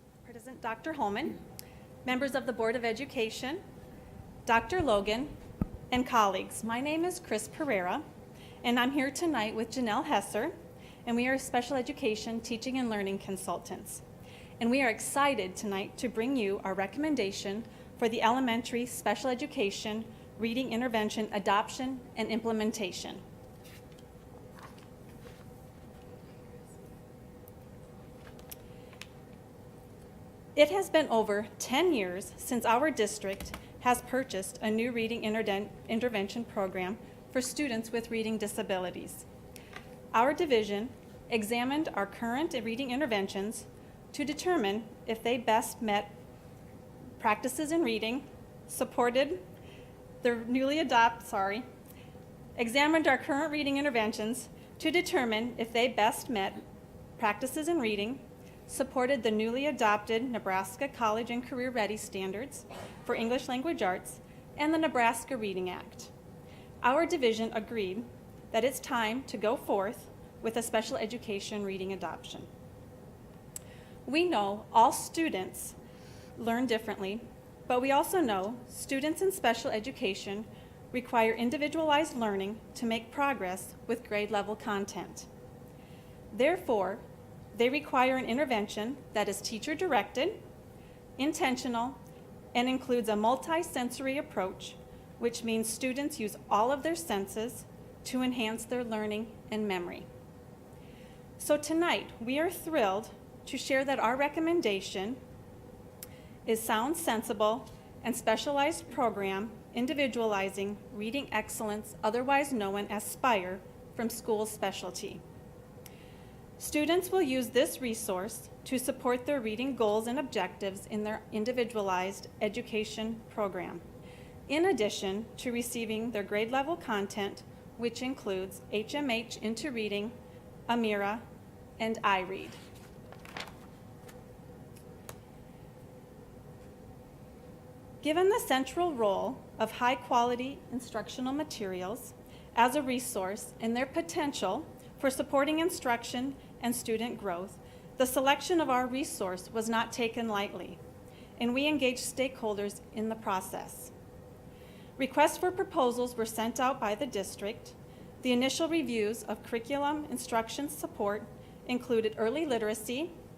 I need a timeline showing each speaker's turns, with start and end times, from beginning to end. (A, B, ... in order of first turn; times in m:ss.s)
0:00.2-0:01.4 A
0:02.0-0:03.6 A
0:04.4-0:05.3 A
0:05.9-0:08.0 A
0:08.6-0:10.5 A
0:11.0-0:14.0 A
0:14.6-0:23.2 A
0:30.6-0:39.2 A
0:40.1-0:46.1 A
0:47.2-0:49.4 A
0:50.2-0:51.6 A
0:52.6-0:56.6 A
0:57.2-1:06.1 A
1:06.8-1:12.5 A
1:14.0-1:15.8 A
1:16.4-1:25.3 A
1:26.3-1:27.0 A
1:27.5-1:30.4 A
1:31.2-1:32.0 A
1:32.5-1:40.0 A
1:41.4-1:45.2 A
1:46.4-1:55.2 A
1:56.6-2:03.8 A
2:04.5-2:10.1 A
2:10.7-2:11.2 A
2:11.8-2:12.6 A
2:18.0-2:30.8 A
2:31.4-2:33.9 A
2:35.0-2:43.1 A